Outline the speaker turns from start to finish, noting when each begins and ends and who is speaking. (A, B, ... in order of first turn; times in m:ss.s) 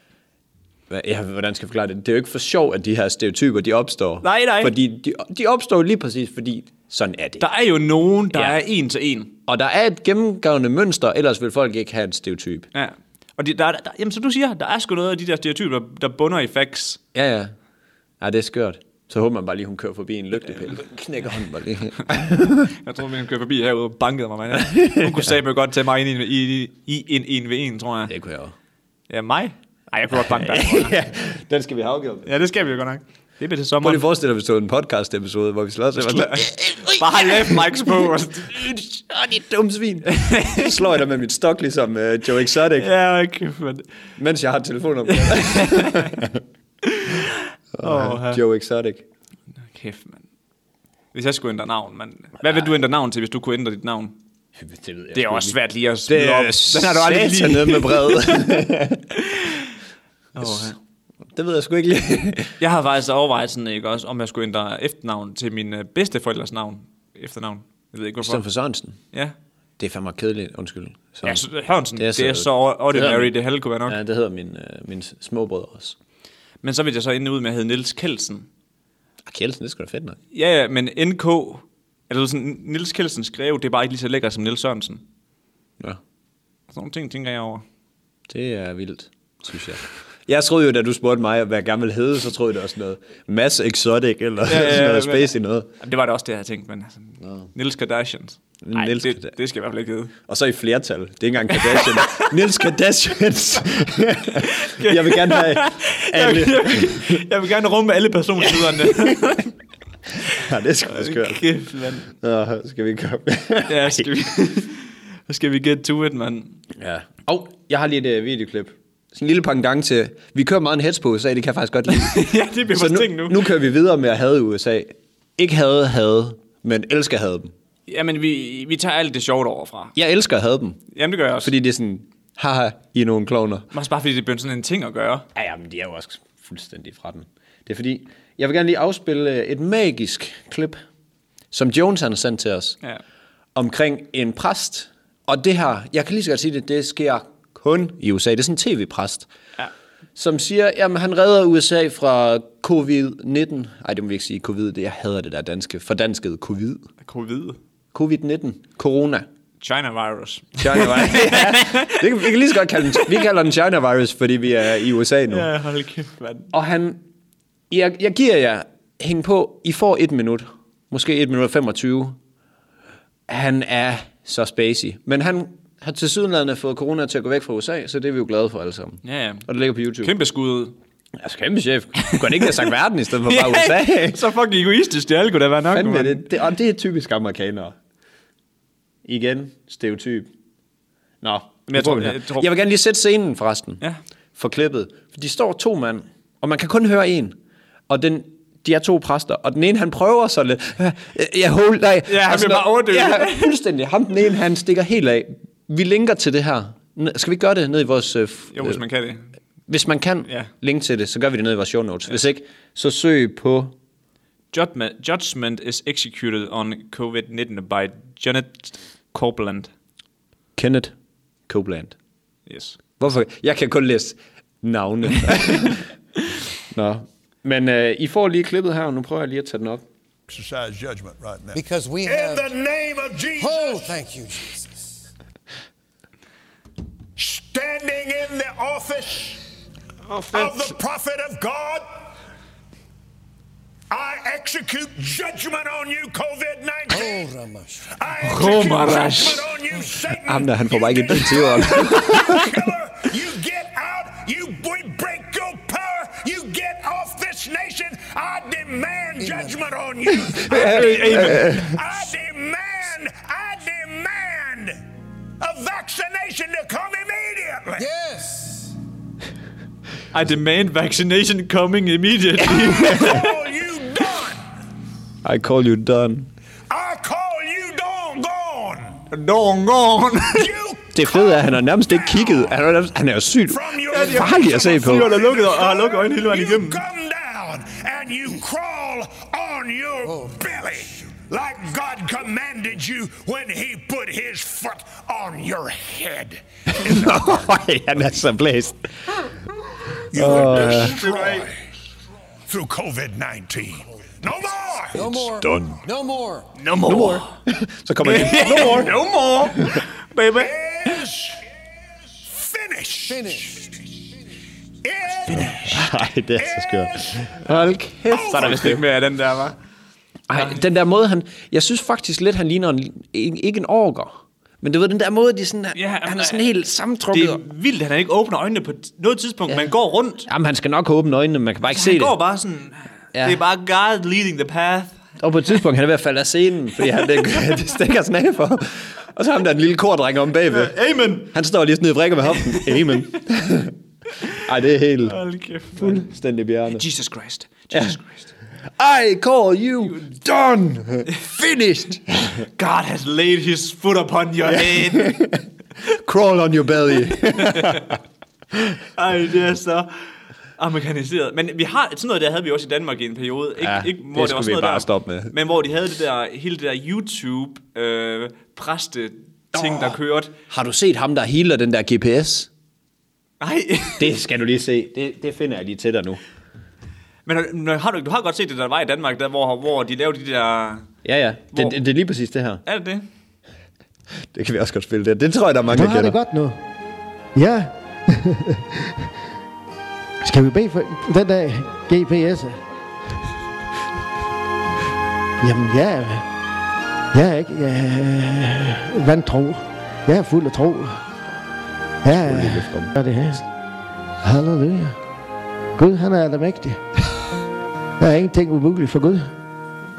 0:00.9-0:07.4 A
0:04.2-0:04.7 B
0:07.4-0:09.4 B
0:08.3-0:08.6 A
0:09.5-0:12.7 A
0:12.7-0:17.0 B
0:17.2-0:17.5 A
0:18.2-0:22.7 A
0:22.7-0:28.1 B
0:24.6-0:25.3 A
0:28.1-0:28.5 A
0:29.1-0:31.0 B
0:30.1-0:32.3 A
0:32.3-0:34.0 B
0:33.8-0:42.9 A
0:36.1-0:38.6 B
0:40.1-0:40.8 B
0:42.7-0:43.9 B
0:44.2-0:46.4 A
0:45.1-0:46.2 B
0:46.8-0:48.4 B
0:47.8-0:49.0 A
0:49.7-0:50.2 B
0:51.1-0:54.2 B
0:54.6-0:59.1 A
0:55.1-0:59.7 B
1:00.4-1:00.8 B
1:00.4-1:02.6 A
1:02.6-1:08.4 B
1:08.2-1:09.0 A
1:09.8-1:11.4 A
1:11.2-1:14.0 B
1:12.0-1:13.3 A
1:13.9-1:16.0 A
1:16.6-1:18.5 B
1:19.2-1:20.2 A
1:20.3-1:25.0 B
1:26.7-1:27.6 B
1:28.3-1:35.7 A
1:34.5-1:40.1 B
1:38.6-1:39.3 A
1:40.3-1:47.2 A
1:41.5-1:42.4 B
1:44.4-1:49.6 B
1:48.4-1:49.3 A
1:50.2-1:51.5 A
1:50.9-1:52.1 B
1:52.1-1:54.1 A
1:53.7-1:56.6 B
1:56.7-2:07.5 A
2:01.9-2:03.4 B
2:07.9-2:09.9 B
2:10.0-2:10.8 A
2:10.9-2:11.5 B
2:11.4-2:13.7 A
2:13.7-2:15.3 B
2:15.4-2:20.8 A
2:21.5-2:22.8 A
2:23.6-2:29.3 A
2:30.2-2:36.9 A
2:37.0-2:37.6 B
2:37.9-2:39.3 A
2:39.6-2:42.1 B
2:40.6-2:45.5 A
2:42.9-2:43.2 B
2:45.3-2:46.5 B
2:46.5-2:47.0 A
2:47.7-2:52.2 A
2:53.3-3:00.1 A
2:59.0-2:59.5 B
3:00.0-3:00.8 B
3:01.2-3:04.3 A
3:02.0-3:02.7 B
3:03.2-3:06.3 B
3:05.7-3:07.8 A
3:09.0-3:10.3 A
3:11.2-3:13.8 A
3:11.7-3:12.5 B
3:14.4-3:17.4 A
3:17.9-3:28.8 A
3:22.1-3:23.6 B
3:28.5-3:29.3 B
3:29.7-3:33.7 A
3:34.5-3:39.7 B
3:40.6-3:40.9 A
3:41.5-3:42.0 A
3:42.5-3:42.9 B
3:43.0-3:45.9 A
3:46.7-3:49.8 A
3:50.3-3:54.0 C
3:51.5-3:52.5 D
3:53.4-3:55.0 D
3:57.2-3:59.4 C
4:00.1-4:00.6 B
4:00.2-4:01.8 C
4:03.9-4:07.2 C
4:06.9-4:07.9 D
4:07.9-4:24.8 C
4:08.2-4:09.5 B
4:10.2-4:12.5 A
4:19.2-4:19.6 D
4:20.4-4:21.8 A
4:20.5-4:21.5 B
4:25.4-4:27.9 C
4:27.8-4:28.8 D
4:30.1-4:33.3 B
4:32.7-4:34.4 C
4:35.2-4:36.3 A
4:36.7-4:39.0 C
4:39.1-4:40.5 B
4:40.3-4:42.5 C
4:40.9-4:45.1 A
4:43.5-4:57.5 C
4:43.9-4:46.8 B
4:56.7-4:58.8 A
5:00.1-5:01.7 C
5:00.1-5:01.0 A
5:00.2-5:01.5 B
5:02.5-5:05.3 C
5:04.9-5:06.5 D
5:05.4-5:05.8 A
5:06.6-5:07.3 B
5:06.8-5:09.8 A
5:08.0-5:11.0 B
5:08.5-5:08.8 C
5:10.4-5:11.5 C
5:12.2-5:13.9 C
5:13.1-5:13.6 D
5:14.8-5:17.6 C
5:15.3-5:18.8 A
5:18.1-5:18.6 C
5:18.1-5:19.6 B
5:20.3-5:27.4 A
5:25.8-5:26.5 B
5:27.1-5:30.3 B
5:30.3-5:32.2 A
5:31.7-5:35.0 B
5:33.1-5:33.4 A
5:35.2-5:40.7 A
5:40.5-5:41.3 B
5:41.3-5:43.8 A
5:42.5-5:43.2 B
5:44.3-5:45.2 A
5:45.0-5:46.1 B
5:45.8-5:46.8 A
5:46.7-5:48.3 B
5:47.7-5:48.0 A
5:48.8-5:52.5 A
5:52.6-5:55.2 B
5:54.5-5:58.0 A
5:57.3-5:57.9 B
5:59.0-6:10.4 B
6:03.6-6:05.3 A
6:09.5-6:10.0 A
6:10.5-6:12.5 A
6:13.4-6:14.1 B
6:14.0-6:16.2 A
6:17.3-6:20.9 B
6:21.0-6:22.6 A
6:22.7-6:23.0 B
6:24.3-6:26.2 A
6:25.7-6:26.6 E
6:27.4-6:29.1 E
6:30.2-6:32.6 E
6:35.4-6:36.3 E
6:37.1-6:41.0 E
6:42.0-6:43.4 E
6:42.2-6:42.9 A
6:44.2-6:45.0 E
6:45.8-6:46.8 E
6:48.0-6:49.3 E